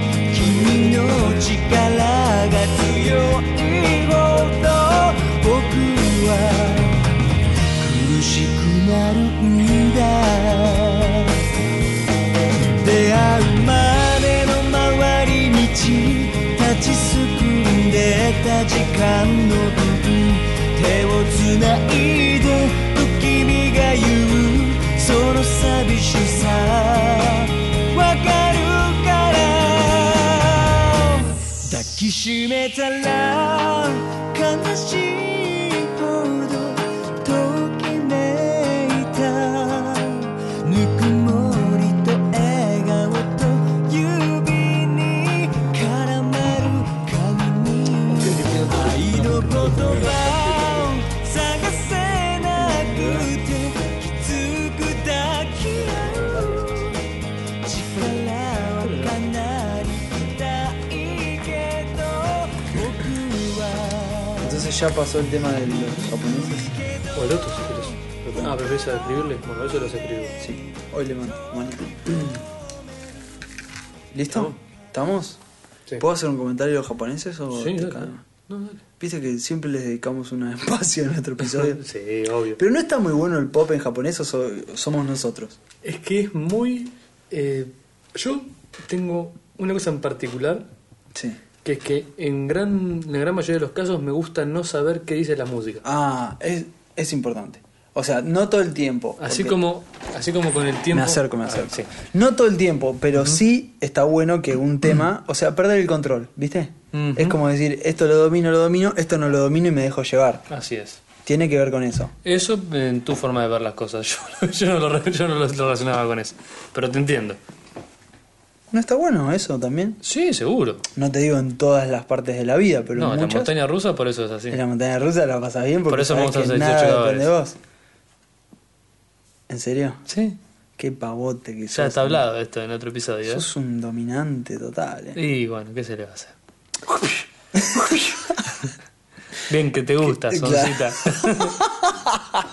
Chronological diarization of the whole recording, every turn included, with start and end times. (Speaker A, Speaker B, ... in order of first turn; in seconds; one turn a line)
Speaker A: 0.3-7.1
Speaker A: 7.8-11.4
Speaker A: 12.6-57.0
Speaker B: 48.1-50.9
Speaker C: 52.6-53.3
Speaker B: 56.0-56.9
Speaker A: 57.6-64.6
Speaker B: 58.9-59.1
Speaker C: 64.4-66.8
Speaker B: 67.1-70.4
Speaker C: 70.4-72.4
Speaker C: 74.1-75.4
Speaker B: 74.3-74.6
Speaker C: 76.0-78.2
Speaker B: 77.5-78.8
Speaker C: 79.0-81.8
Speaker B: 81.4-82.6
Speaker C: 82.5-85.6
Speaker B: 85.8-90.7
Speaker B: 91.6-95.8
Speaker C: 95.8-99.6
Speaker B: 99.2-101.9
Speaker C: 100.9-110.5
Speaker B: 103.1-103.4
Speaker B: 106.9-107.4
Speaker B: 110.5-111.0
Speaker C: 111.2-112.1
Speaker B: 112.2-117.4
Speaker C: 118.7-120.0
Speaker B: 120.0-120.8
Speaker C: 120.9-123.5
Speaker B: 122.9-124.6
Speaker C: 124.5-127.6
Speaker B: 125.9-127.3
Speaker C: 129.5-130.0
Speaker B: 130.1-130.4
Speaker C: 130.8-132.2
Speaker B: 131.7-133.4
Speaker C: 133.3-135.2
Speaker B: 135.1-136.3
Speaker C: 137.5-138.4
Speaker B: 137.7-138.7
Speaker B: 139.4-141.6
Speaker C: 140.0-142.4